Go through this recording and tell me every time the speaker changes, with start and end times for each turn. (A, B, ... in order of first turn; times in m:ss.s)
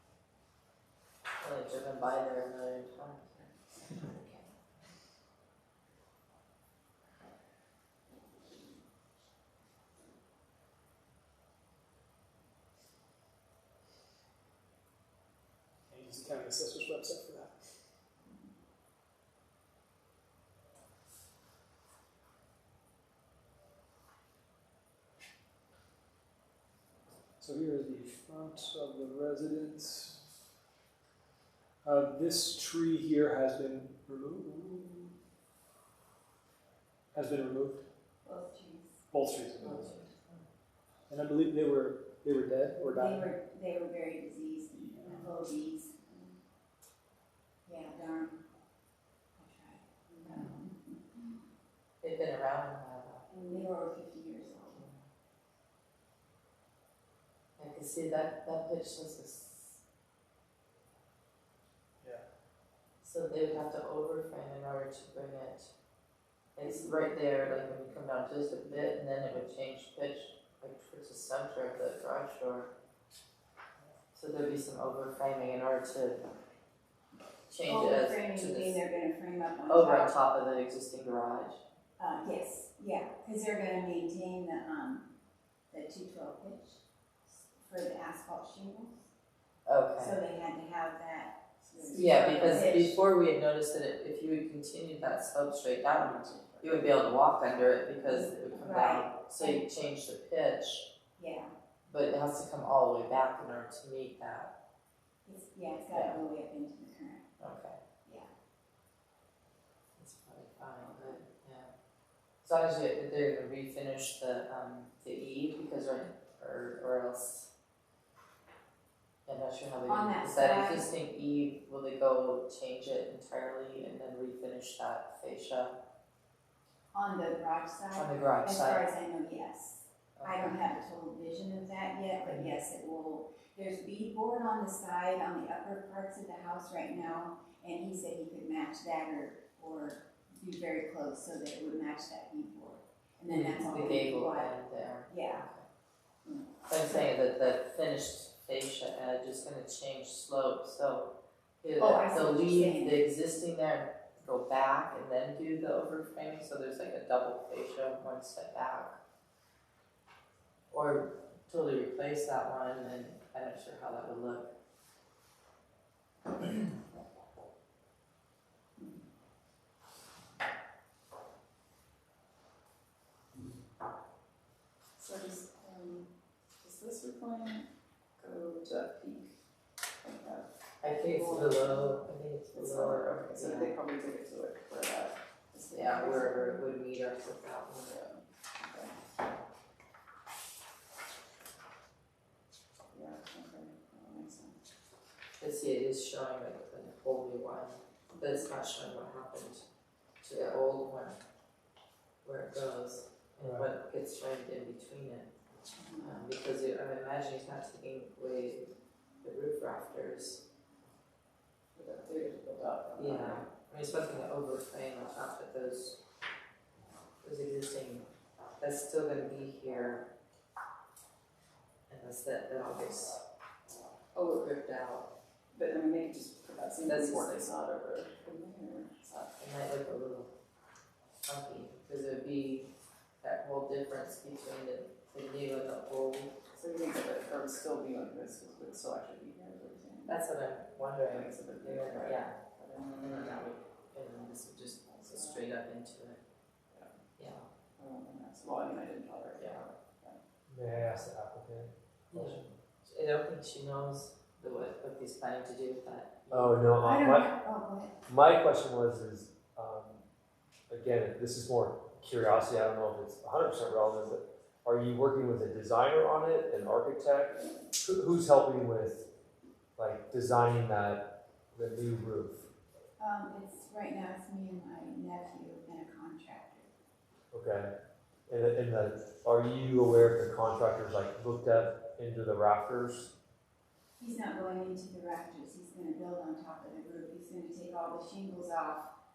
0:01.4-0:03.5 A
0:15.9-0:17.8 B
0:27.4-0:30.2 B
0:31.8-0:35.0 B
0:37.1-0:37.8 B
0:38.2-0:39.0 C
0:39.1-0:40.0 B
0:39.6-0:40.4 A
0:41.1-0:43.3 B
0:42.9-0:46.4 C
0:47.6-0:48.4 C
0:49.4-0:51.3 C
0:50.2-0:50.6 A
0:52.0-0:53.3 A
0:53.3-0:54.8 C
0:57.6-0:59.8 A
1:03.0-1:05.7 A
1:06.6-1:12.7 A
1:14.1-1:16.2 A
1:17.5-1:18.8 A
1:17.6-1:20.1 C
1:19.7-1:21.6 A
1:22.0-1:25.1 C
1:25.7-1:29.1 C
1:29.7-1:30.2 A
1:30.0-1:33.0 C
1:31.7-1:32.4 D
1:31.9-1:40.8 A
1:36.0-1:36.8 D
1:38.1-1:39.6 C
1:41.2-1:41.5 C
1:41.9-1:44.5 A
1:45.2-1:47.3 C
1:47.4-1:47.8 A
1:50.0-1:51.7 A
1:52.4-1:57.5 A
1:59.3-2:05.7 A
1:59.9-2:00.8 C
2:06.9-2:24.6 C
2:08.0-2:08.8 A
2:10.2-2:10.6 A
2:23.3-2:25.6 A
2:25.1-2:25.5 C
2:26.3-2:27.0 C
2:26.7-2:31.1 A
2:31.6-2:39.0 A
2:31.8-2:33.0 C
2:40.7-2:44.5 A
2:55.0-2:56.1 D
2:56.6-2:57.7 D
2:58.2-2:59.3 D
3:00.0-3:02.0 D
3:00.8-3:03.8 A
3:02.5-3:06.6 D
3:05.7-3:07.9 A
3:07.8-3:09.0 D
3:12.9-3:14.6 D
3:15.4-3:19.6 A
3:20.2-3:21.2 A
3:22.2-3:25.3 A
3:23.4-3:23.7 E
3:26.0-3:28.7 A
3:29.2-3:30.4 A
3:31.8-3:33.5 D
3:33.0-3:36.0 A
3:37.2-3:38.0 A
3:38.6-3:40.0 A
3:41.9-3:43.2 A
3:44.2-3:45.1 A
3:45.5-3:49.3 D
3:46.9-3:47.5 A
3:49.4-3:50.3 A
3:51.3-3:52.7 A
3:53.2-3:56.3 A
3:56.6-4:00.2 D
4:00.1-4:02.4 A
4:01.1-4:03.3 D
4:03.0-4:06.2 A
4:04.9-4:05.4 D
4:07.2-4:07.5 A
4:07.8-4:10.2 D
4:10.5-4:12.5 E
4:12.1-4:16.6 A
4:16.3-4:17.3 E
4:16.8-4:18.0 C
4:18.1-4:20.0 E
4:20.7-4:29.0 E
4:29.8-4:32.5 E
4:33.0-4:36.7 C
4:37.3-4:37.7 E
4:38.3-4:43.1 E
4:44.0-4:48.9 C